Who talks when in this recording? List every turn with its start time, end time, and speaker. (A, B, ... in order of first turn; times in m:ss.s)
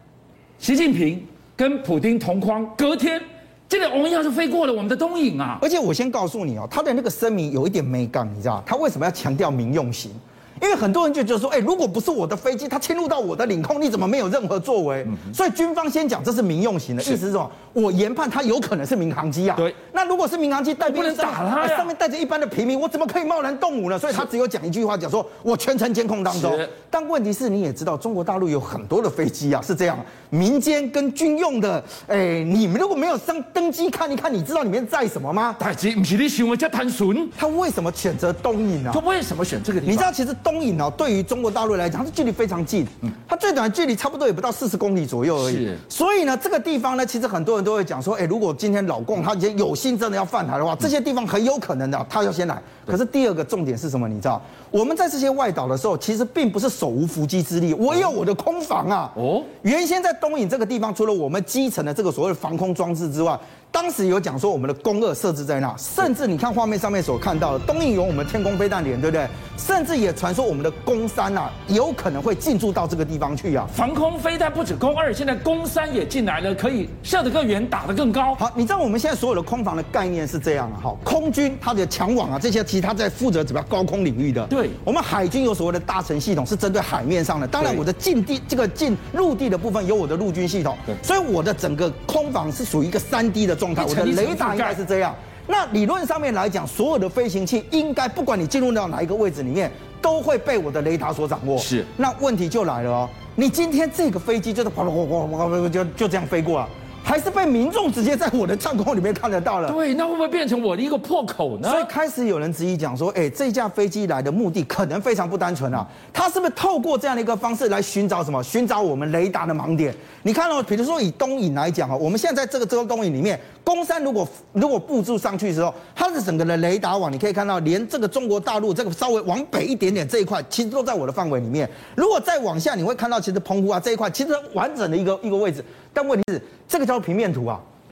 0:00.6-0:05.6 A
0:05.6-0:35.6 B
0:20.8-0:21.9 A
0:26.3-0:26.7 A
0:35.6-0:37.3 A
0:37.4-0:39.0 B
0:38.9-0:40.1 A
0:39.8-1:13.7 B
0:45.4-0:45.8 A
0:59.2-0:59.5 A
1:13.7-1:18.4 A
1:18.4-1:49.8 B
1:24.5-1:24.8 A
1:33.8-1:34.8 A
1:41.6-1:41.9 A
1:49.7-1:51.9 A
1:51.6-2:17.6 B